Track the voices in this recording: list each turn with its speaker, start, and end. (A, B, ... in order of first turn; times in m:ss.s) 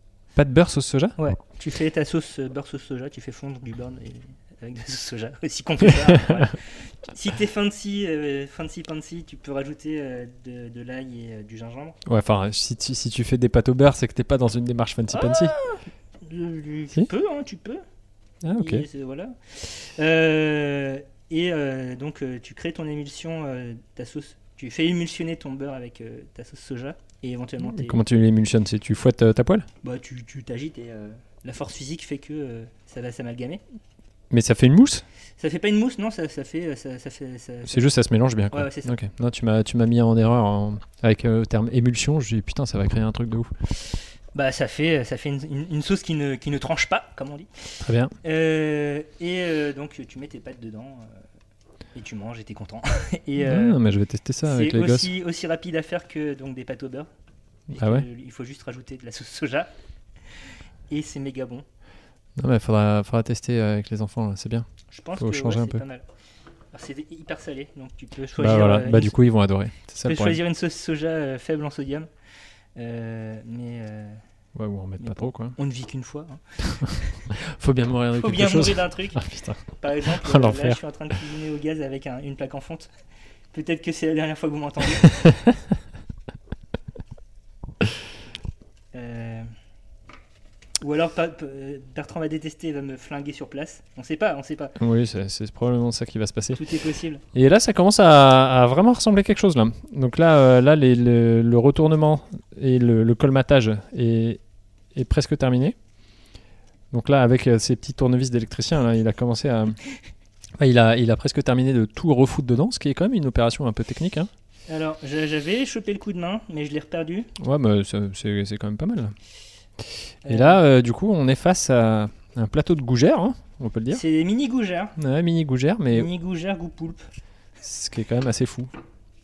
0:00.4-0:01.2 A
0:01.2-0:12.0 B
0:06.0-0:06.5 A
0:12.1-0:15.6 A
0:15.2-0:17.8 B
0:18.4-0:18.9 A
0:18.6-0:28.0 B
0:27.6-0:29.7 A
0:29.8-0:33.6 B
0:34.3-0:35.0 A
0:35.4-0:37.9 B
0:37.7-0:43.5 A
0:38.5-0:39.0 B
0:44.3-0:47.5 B
0:47.8-0:48.1 A
0:48.2-0:51.2 B
0:52.0-0:53.8 B
0:53.4-0:55.1 A
0:54.4-0:57.1 B
0:57.7-0:59.7 B
0:57.7-0:58.1 A
1:00.9-1:01.6 B
1:02.4-1:04.7 A
1:04.9-1:06.1 B
1:05.2-1:05.8 A
1:06.7-1:09.2 B
1:08.4-1:10.4 A
1:10.1-1:12.1 B
1:12.8-1:14.2 B
1:14.6-1:15.6 A
1:15.0-1:17.2 B
1:16.8-1:20.8 A
1:18.1-1:22.9 B
1:23.5-1:25.2 B
1:25.3-1:25.6 A
1:28.9-1:29.5 B
1:30.8-1:34.8 B
1:34.8-1:36.6 A
1:36.5-1:37.2 B
1:37.3-1:44.4 A
1:45.0-1:45.8 A
1:46.9-1:49.8 A
1:50.6-1:54.3 A
1:54.7-1:57.3 B
1:57.4-1:59.1 A
2:00.2-2:00.6 B
2:00.3-2:04.0 A
2:03.9-2:05.0 B
2:05.0-2:06.1 A
2:05.9-2:07.1 B
2:07.6-2:08.7 A